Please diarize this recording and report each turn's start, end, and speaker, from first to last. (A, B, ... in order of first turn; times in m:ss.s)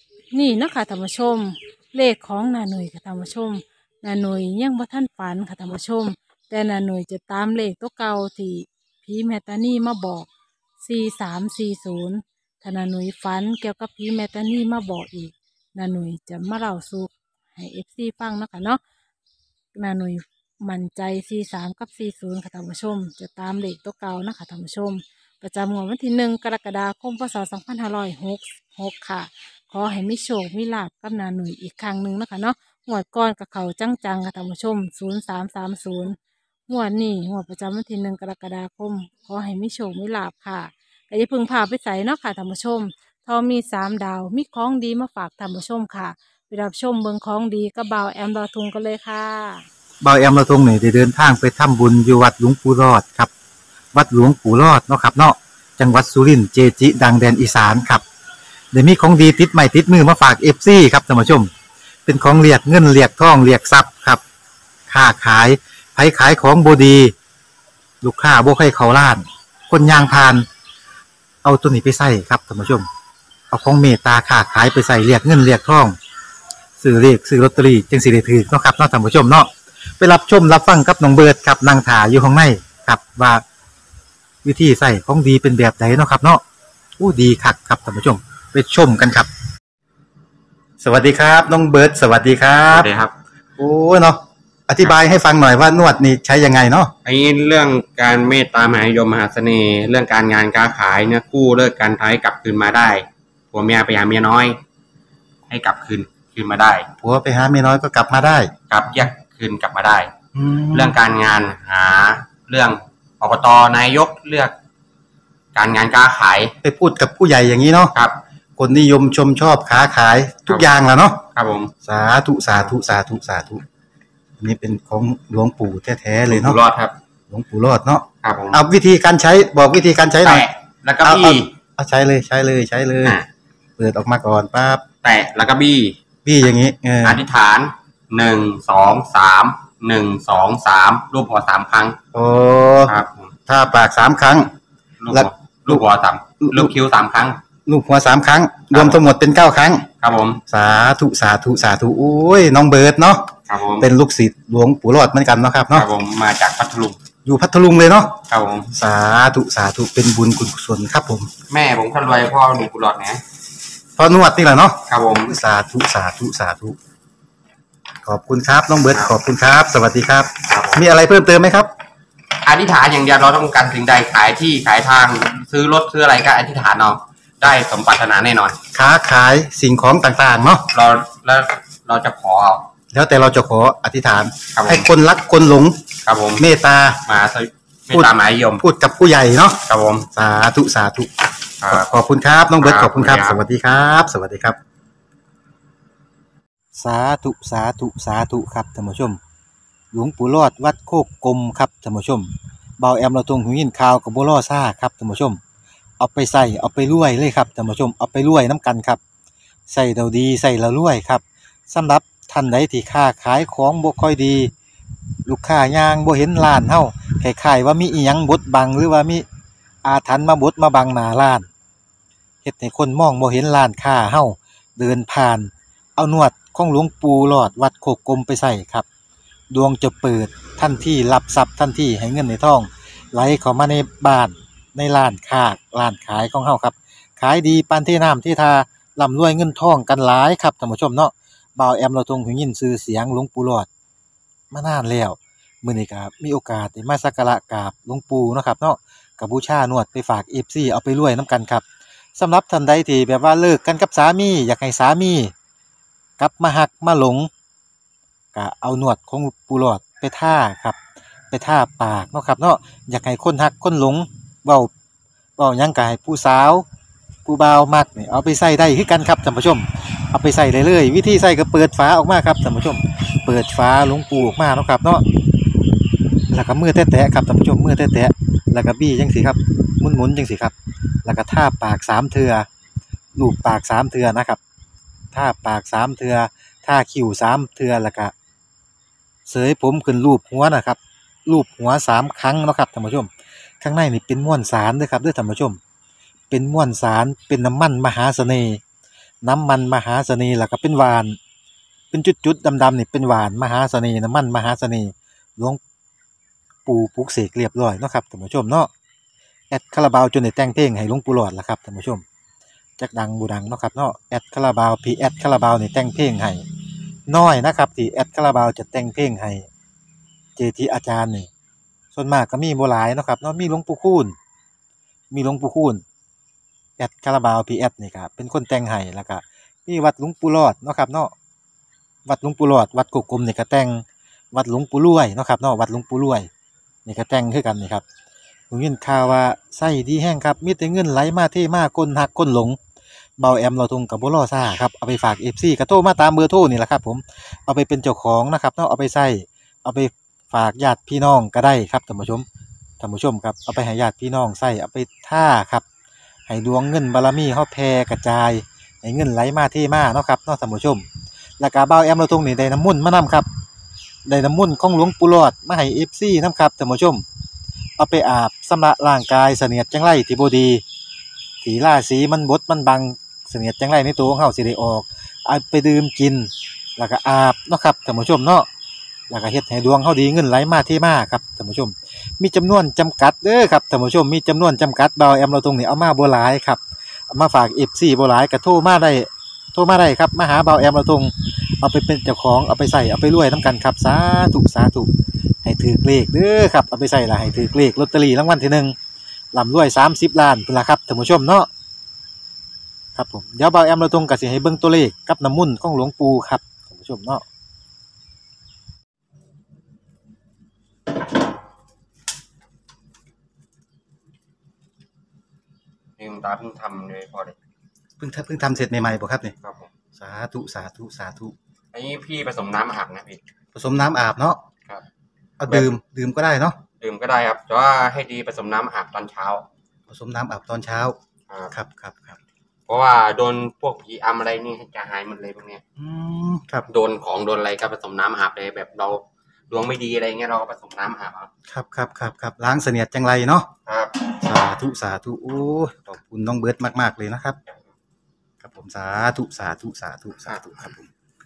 0:00.3-0:10.3 A
0:10.8-0:18.8 A
0:19.7-0:36.2 A
0:36.7-0:49.6 A
0:50.0-0:53.3 B
0:53.9-0:58.0 B
0:58.7-1:01.5 B
1:02.0-1:04.2 B
1:04.9-1:07.1 B
1:08.0-1:10.4 B
1:11.4-1:12.9 B
1:13.5-1:16.0 B
1:16.8-1:23.4 B
1:24.4-1:26.4 B
1:27.0-1:29.3 B
1:30.8-1:32.9 B
1:32.7-1:33.1 C
1:33.6-1:36.9 B
1:37.0-1:44.6 C
1:45.5-1:46.9 C
1:47.0-1:48.5 B
1:48.7-1:54.5 C
1:50.4-1:51.0 B
1:55.5-1:56.5 C
1:56.6-1:57.9 B
1:57.9-1:58.2 C
1:58.6-2:01.2 B
2:01.3-2:01.7 C
2:01.8-2:03.6 B
2:04.4-2:06.6 B
2:06.3-2:06.9 C
2:07.3-2:10.4 B
2:08.2-2:08.6 C
2:10.2-2:11.5 C
2:11.0-2:13.2 B
2:13.0-2:13.3 C
2:13.8-2:14.8 B
2:15.0-2:16.0 C
2:16.2-2:17.2 B
2:17.0-2:22.0 C
2:22.1-2:22.9 B
2:22.7-2:23.4 C
2:23.5-2:24.5 B
2:25.0-2:27.4 C
2:25.1-2:25.8 B
2:26.4-2:26.7 B
2:27.6-2:29.8 B
2:28.7-2:29.2 C
2:29.9-2:30.4 C
2:30.5-2:33.2 B
2:33.5-2:33.9 C
2:33.8-2:35.9 B
2:35.7-2:37.0 C
2:37.2-2:38.1 B
2:38.3-2:38.7 C
2:38.7-2:41.3 B
2:41.5-2:43.2 C
2:44.0-2:46.8 B
2:44.9-2:45.4 C
2:48.0-2:51.7 B
2:48.8-2:49.2 C
2:50.4-2:50.9 C
2:52.4-2:58.6 C
2:58.7-3:00.6 B
3:00.7-3:02.7 C
3:02.9-3:05.8 B
3:04.5-3:04.9 C
3:06.0-3:06.5 C
3:06.4-3:07.0 B
3:07.0-3:08.6 C
3:07.9-3:09.6 B
3:09.6-3:10.1 C
3:10.1-3:11.1 B
3:11.6-3:11.9 C
3:11.7-3:14.6 B
3:12.6-3:13.4 C
3:16.7-3:19.2 B
3:19.9-3:25.4 B
3:26.0-3:29.0 B
3:29.7-3:34.5 B
3:35.2-3:39.2 B
3:39.8-3:41.5 B
3:42.4-3:48.8 B
3:49.5-4:03.7 B
4:04.5-4:15.3 B
4:16.2-4:17.3 B
4:18.3-4:20.8 B
4:21.3-4:24.7 B
4:25.4-4:26.6 B
4:27.2-4:35.0 B
4:36.3-4:42.5 B
4:43.1-4:44.4 B
4:45.1-4:48.1 B
4:49.2-4:55.6 B
4:56.3-4:58.6 B
4:59.2-5:01.2 B
5:01.9-5:05.6 B
5:06.6-5:08.7 B
5:09.5-5:12.0 B
5:12.8-5:16.4 B
5:17.1-5:19.4 B
5:20.4-5:21.3 B
5:21.9-5:24.2 B
5:25.1-5:25.8 B
5:26.8-5:31.1 B
5:32.0-5:36.3 B
5:36.8-5:37.8 B
5:38.5-5:42.6 B
5:43.2-5:52.2 B
5:52.8-5:55.6 B
5:56.3-6:00.9 B
6:01.4-6:03.3 B
6:04.0-6:07.0 B
6:07.8-6:10.6 B
6:11.4-6:18.5 B
6:19.1-6:34.9 B
6:35.4-6:38.8 B
6:39.3-6:41.5 B
6:42.9-6:47.2 B
6:56.0-6:57.4 C
6:58.0-6:59.3 B
6:59.4-6:59.7 C
7:00.0-7:01.3 B
7:01.7-7:03.2 C
7:03.5-7:04.4 B
7:05.4-7:06.6 B
7:05.4-7:05.8 C
7:06.6-7:09.5 C
7:09.9-7:10.9 B
7:11.3-7:11.6 C
7:11.5-7:12.2 B
7:12.7-7:15.6 C
7:15.8-7:16.6 B
7:16.7-7:21.3 C
7:21.5-7:23.5 B
7:23.6-7:24.1 C
7:24.2-7:27.4 B
7:28.4-7:30.8 B
7:30.3-7:30.8 C